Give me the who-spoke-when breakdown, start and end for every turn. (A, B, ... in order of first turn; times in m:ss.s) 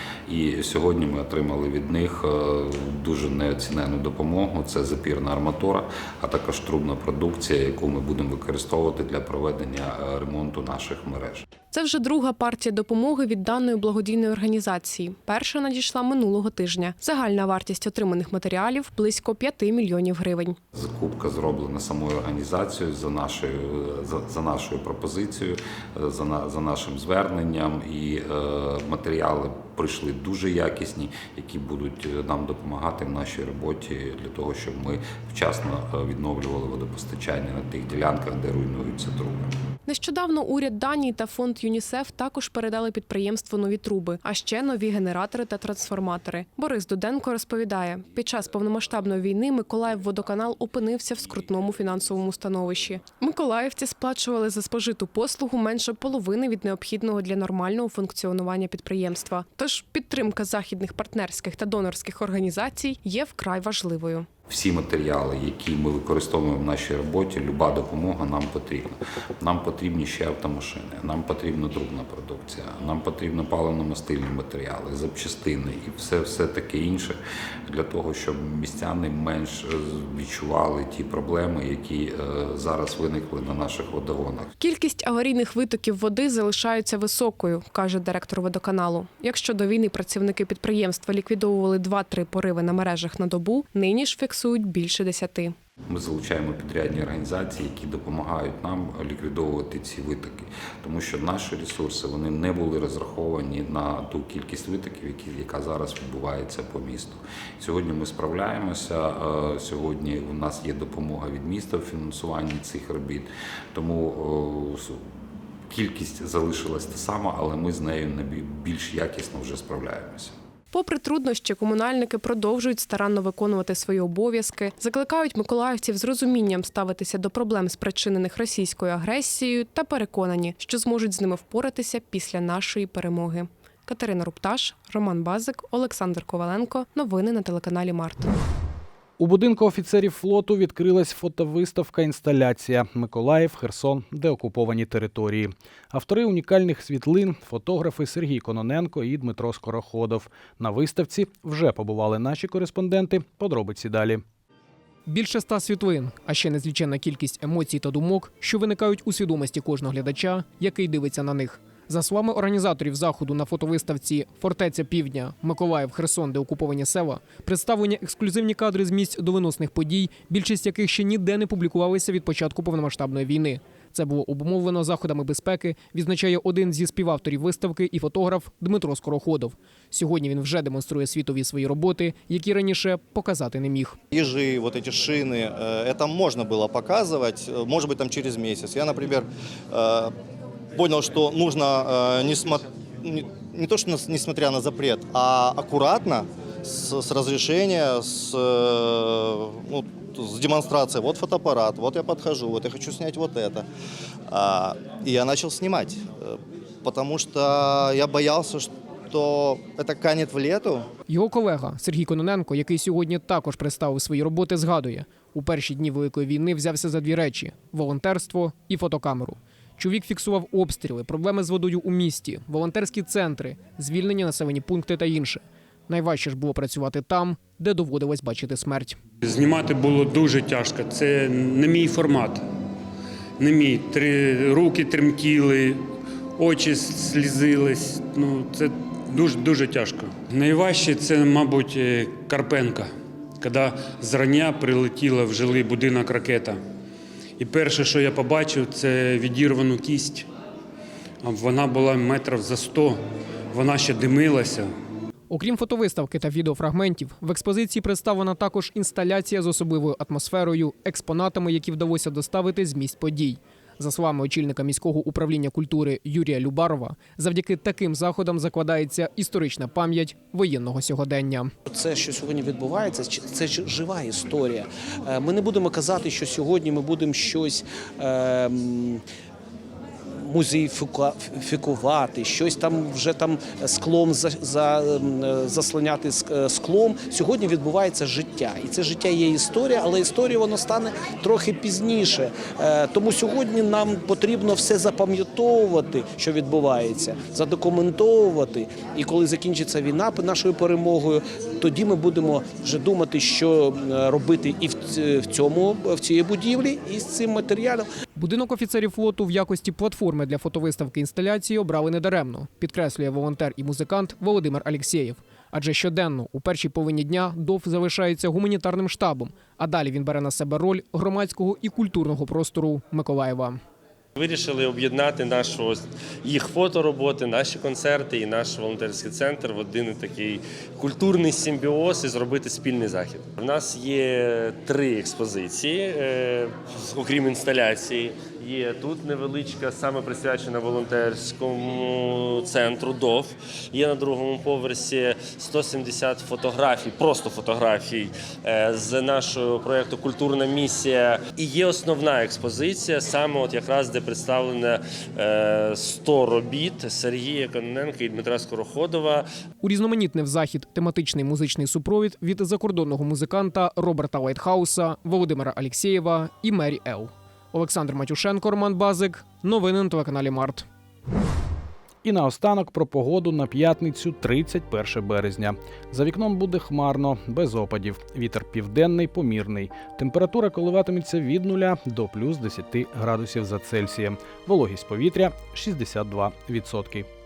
0:00.3-0:11.4 A
0:11.7-0:20.6 B
0:20.7-0:39.5 A
0:39.9-1:04.2 B
1:04.5-1:24.5 A
1:24.6-1:35.5 B
1:35.9-1:55.0 A
1:55.7-2:00.3 A
2:00.7-2:18.2 B
2:19.2-2:34.2 C
2:35.1-3:04.0 D
3:04.1-3:10.1 E
3:10.7-3:23.6 E
3:24.3-3:30.8 E
3:31.1-3:49.0 D
3:49.2-3:52.4 F
3:53.4-3:55.8 F
3:56.4-4:02.8 F
4:03.4-4:06.6 F
4:07.4-4:10.2 F
4:11.2-4:13.0 F
4:13.5-4:14.7 F
4:15.3-4:31.5 D
4:31.7-4:39.0 G
4:40.1-5:07.9 G
5:08.2-5:23.6 D
5:24.2-5:59.2 H
5:59.6-6:10.6 D
6:12.0-6:27.1 C